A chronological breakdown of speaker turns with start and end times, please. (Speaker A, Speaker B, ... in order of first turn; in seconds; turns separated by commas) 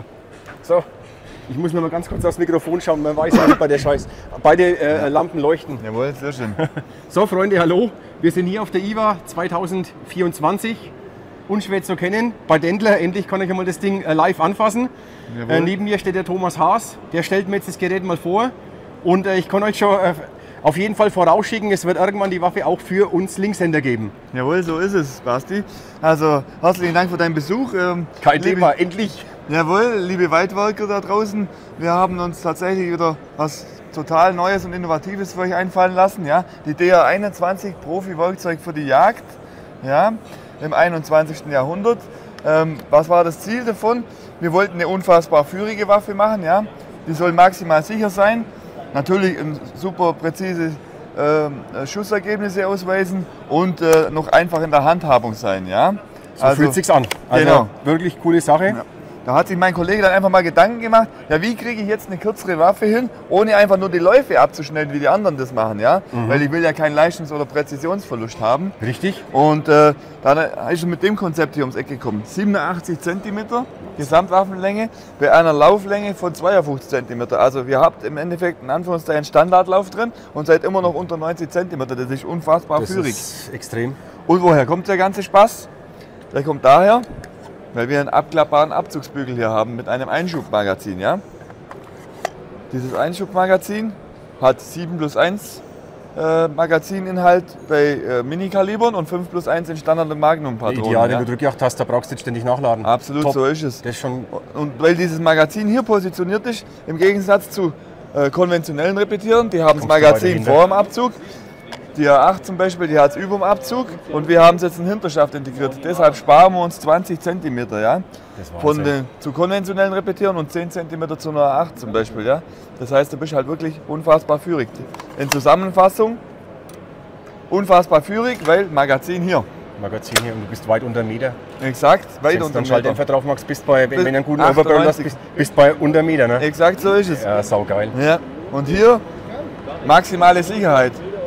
Speaker A: 1.5-5.8, Speaker B: 5.8-6.6, Speaker A: 6.6-10.9, Speaker A: 11.5-14.9, Speaker B: 15.3-15.7, Speaker A: 15.5-18.5, Speaker A: 19.0-24.1, Speaker B: 24.3-28.7, Speaker A: 28.2-29.3, Speaker B: 29.5-56.8, Speaker A: 56.4-58.8, Speaker B: 57.3-57.7, Speaker B: 58.7-68.8, Speaker A: 66.1-66.4, Speaker A: 68.8-69.2, Speaker B: 69.3-83.2, Speaker A: 82.8-84.0, Speaker B: 84.3-85.7, Speaker B: 86.3-87.0, Speaker B: 87.7-91.2, Speaker B: 92.7-95.6, Speaker B: 96.2-101.3, Speaker A: 100.7-104.3, Speaker B: 102.8-111.2, Speaker A: 109.8-110.6, Speaker B: 111.9-118.0, Speaker A: 118.4-118.9, Speaker B: 118.6-126.2, Speaker B: 127.5-129.5, Speaker A: 129.8-131.4, Speaker B: 131.6-133.0, Speaker A: 132.3-136.4, Speaker B: 133.9-135.2, Speaker B: 136.4-137.3, Speaker A: 137.1-137.9, Speaker B: 137.9-139.0, Speaker B: 139.8-141.0